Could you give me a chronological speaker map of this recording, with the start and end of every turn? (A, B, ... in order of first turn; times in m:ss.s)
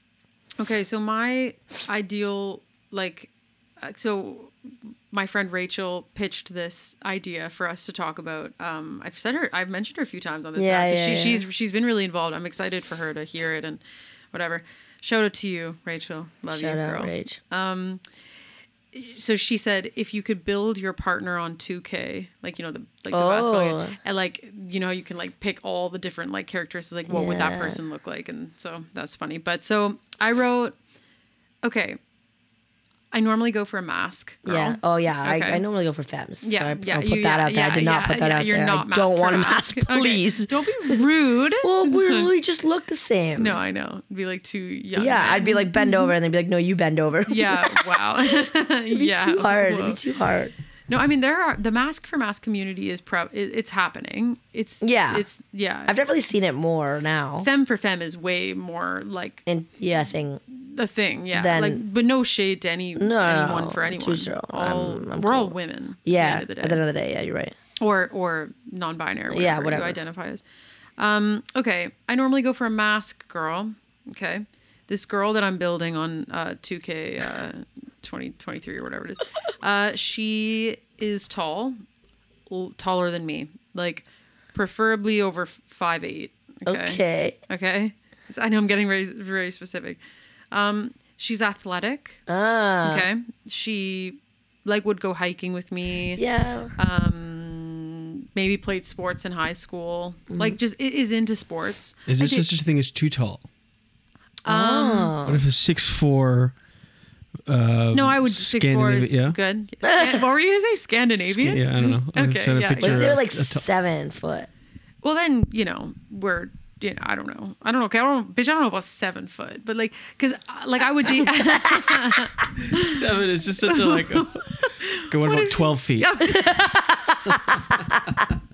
0:00.6-0:04.5 A
0:05.1-0:13.8 A
0:10.6-0:11.4 B
0:14.3-0:18.0 A
0:16.5-0:17.4 B
0:18.9-0:30.7 A
0:23.1-0:24.0 B
0:27.1-0:27.8 B
0:31.6-0:32.0 A
0:33.1-0:35.6 A
0:34.4-0:41.0 B
0:36.4-0:42.3 A
0:41.6-0:43.6 B
0:43.4-0:46.1 A
0:45.0-0:47.9 B
0:47.3-0:50.0 A
0:48.4-0:50.5 B
0:50.9-0:56.0 A
0:54.8-0:55.2 B
0:55.9-0:57.5 B
0:57.4-0:59.4 A
0:59.4-1:00.4 B
1:00.5-1:06.8 A
1:01.3-1:01.8 B
1:03.0-1:07.5 B
1:07.8-1:10.4 A
1:09.3-1:10.0 B
1:11.0-1:21.8 A
1:22.5-1:30.0 A
1:26.6-1:27.4 B
1:30.5-1:32.2 A
1:32.3-1:33.1 B
1:32.8-1:36.2 A
1:36.2-1:36.7 B
1:36.8-1:42.4 A
1:40.3-1:40.6 B
1:42.1-1:43.4 C
1:44.4-1:45.1 A
1:44.5-1:45.4 B
1:45.2-1:46.5 C
1:47.5-1:49.4 C
1:47.9-1:53.1 A
1:49.9-1:50.2 B
1:51.2-1:53.6 C
1:52.8-1:54.5 B
1:55.0-2:03.0 A
2:01.2-2:02.3 B
2:02.6-2:06.1 C
2:03.6-2:06.7 A
2:06.3-2:08.0 B